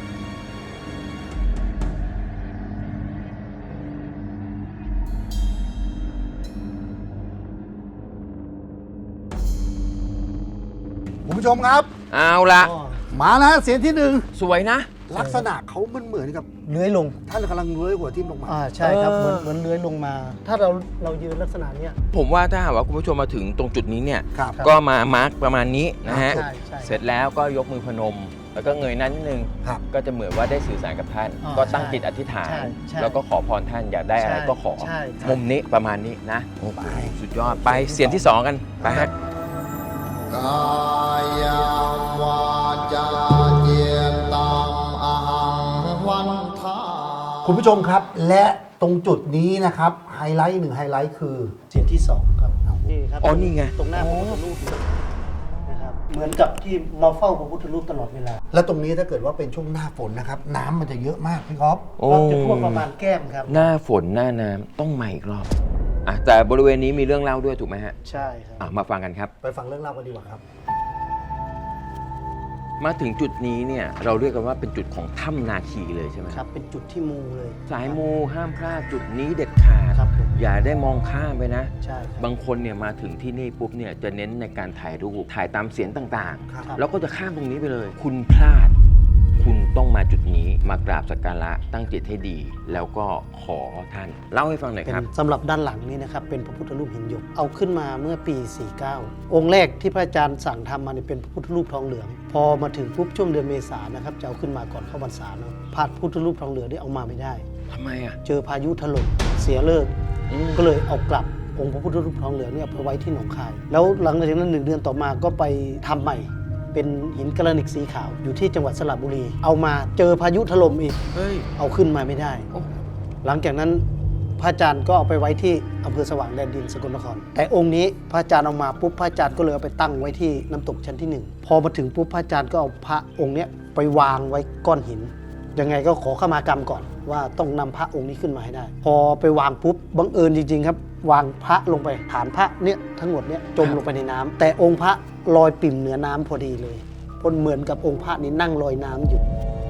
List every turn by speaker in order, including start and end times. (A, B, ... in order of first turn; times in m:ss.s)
0:11.2-0:11.9 A
0:12.1-0:12.7 B
0:12.6-0:13.1 C
0:13.1-0:14.3 A
0:14.4-0:14.9 B
0:15.1-0:16.5 A
0:15.2-0:15.5 C
0:16.6-0:17.2 C
0:17.3-0:18.6 A
0:18.5-0:22.0 C
0:18.8-0:19.5 B
0:22.1-0:39.1 B
0:24.3-0:24.6 A
0:26.1-0:26.5 A
0:26.2-0:27.0 C
0:31.4-0:33.2 C
0:34.2-0:35.4 C
0:36.8-0:37.2 A
0:37.4-0:38.3 C
0:38.8-0:39.1 A
0:40.3-0:47.7 D
0:47.4-0:51.6 A
0:51.7-0:54.9 C
0:53.2-0:54.4 B
0:55.7-0:58.4 C
0:58.5-1:01.9 A
1:02.0-1:02.9 B
1:02.1-1:03.7 C
1:03.5-1:05.5 B
1:06.0-1:08.0 B
1:08.0-1:08.7 C
1:08.6-1:09.3 B
1:09.4-1:10.4 A
1:12.8-1:16.4 B
1:16.3-1:18.0 C
1:17.7-1:28.7 B
1:19.9-1:20.3 C
1:21.8-1:22.3 C
1:29.4-1:35.1 B
1:34.9-1:47.5 C
1:47.7-1:48.2 B
1:48.2-1:49.9 C
1:50.3-1:50.7 B
1:50.6-2:01.0 C
2:01.1-2:01.5 B
2:01.6-2:02.5 C
2:03.2-2:03.8 C
2:04.4-2:29.2 C